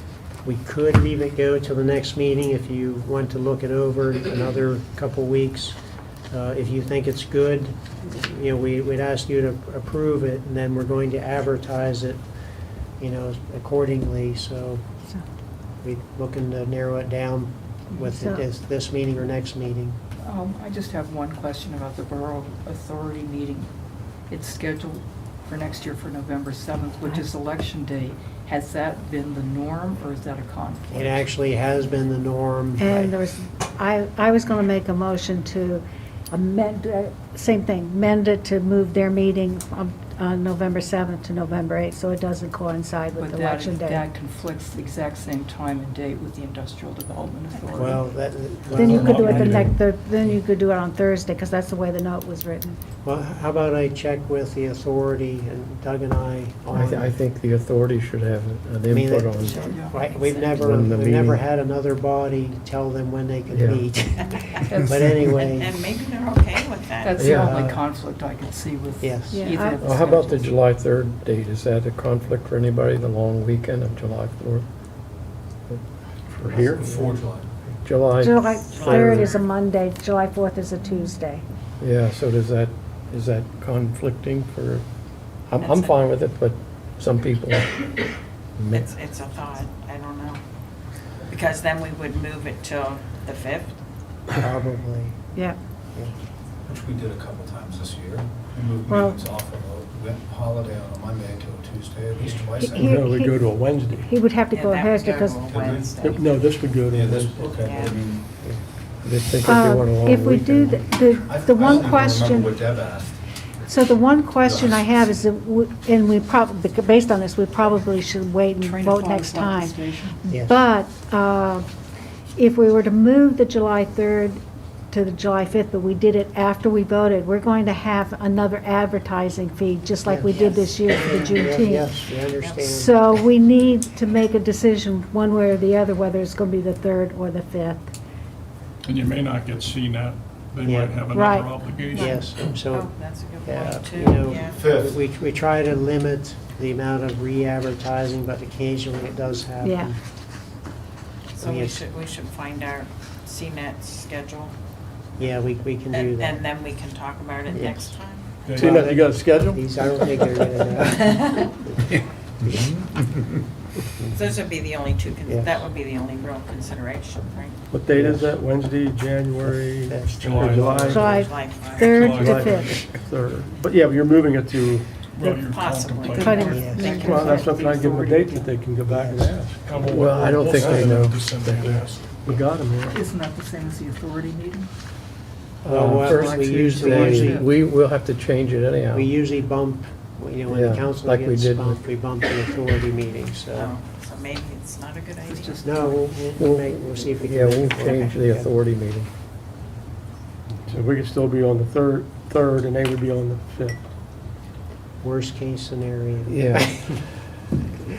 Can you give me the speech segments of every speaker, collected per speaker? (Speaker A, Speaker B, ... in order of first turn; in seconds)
Speaker A: 0.5-5.8, 6.3-12.2, 13.0-14.8, 15.8-20.0, 30.9-33.1, 47.7-49.7, 53.0-57.2, 58.9-65.7, 67.3-67.8, 69.0-69.5, 94.4-95.2, 120.3-120.6, 130.1-133.0, 140.6-141.0, 141.9-142.9, 143.4-150.0, 151.4-151.8, 155.2-156.4, 157.5-158.0, 158.6-161.3, 165.3-165.5, 167.9-168.4, 169.4-171.1, 176.5-177.0, 178.9-180.0, 185.6-187.4, 188.9-193.8, 195.6-198.5, 205.0-207.0
Speaker B: 18.1-18.4, 32.8-44.1, 48.7-52.8, 69.3-69.8, 78.2-81.4, 98.9-99.2, 102.6-105.4, 109.5-112.6, 113.7-121.7, 122.4-124.4, 124.9-132.0, 132.6-137.9, 141.1-142.2, 149.6-149.9, 170.9-172.8, 176.2-177.4
Speaker C: 20.2-23.7, 24.3-31.3, 43.2-48.1, 59.4-60.8, 64.7-65.0, 67.0-70.5, 118.6-120.2, 177.3-178.6, 182.9-184.7, 185.7-187.5, 195.2-196.0
Speaker D: 48.8-49.8, 138.8-142.2, 158.4-158.8, 170.2-170.9, 171.8-172.8, 175.0-176.8, 179.6-182.3
Speaker E: 56.7-59.8, 60.6-61.5, 63.5-63.8, 67.2-67.6, 69.8-74.7, 76.5-77.1, 77.8-79.3, 81.8-84.9, 85.5-87.9, 88.6-88.9, 109.0-110.9, 179.9-181.9, 185.6-189.1, 190.5-191.8, 196.4-199.1, 206.3-207.2
Speaker F: 64.3-64.6, 65.3-67.4, 78.7-79.4, 85.6-86.0, 88.7-90.4, 91.3-93.8, 104.5-106.6, 107.5-108.1, 130.3-131.6, 132.4-132.7, 142.7-144.6, 151.3-154.5, 155.9-158.3, 160.8-161.5, 164.1-167.6, 170.6-172.6, 175.3-177.8, 193.5-195.9
Speaker G: 76.3-76.9, 102.8-104.1, 106.0-107.4, 158.6-159.7, 167.7-171.6, 172.2-175.0, 176.7-179.7, 182.2-183.0, 200.7-203.8
Speaker H: 76.7-77.5, 96.7-103.0, 105.5-106.2, 106.9-108.3, 111.2-113.1, 114.4-115.2, 144.5-145.0, 162.4-163.1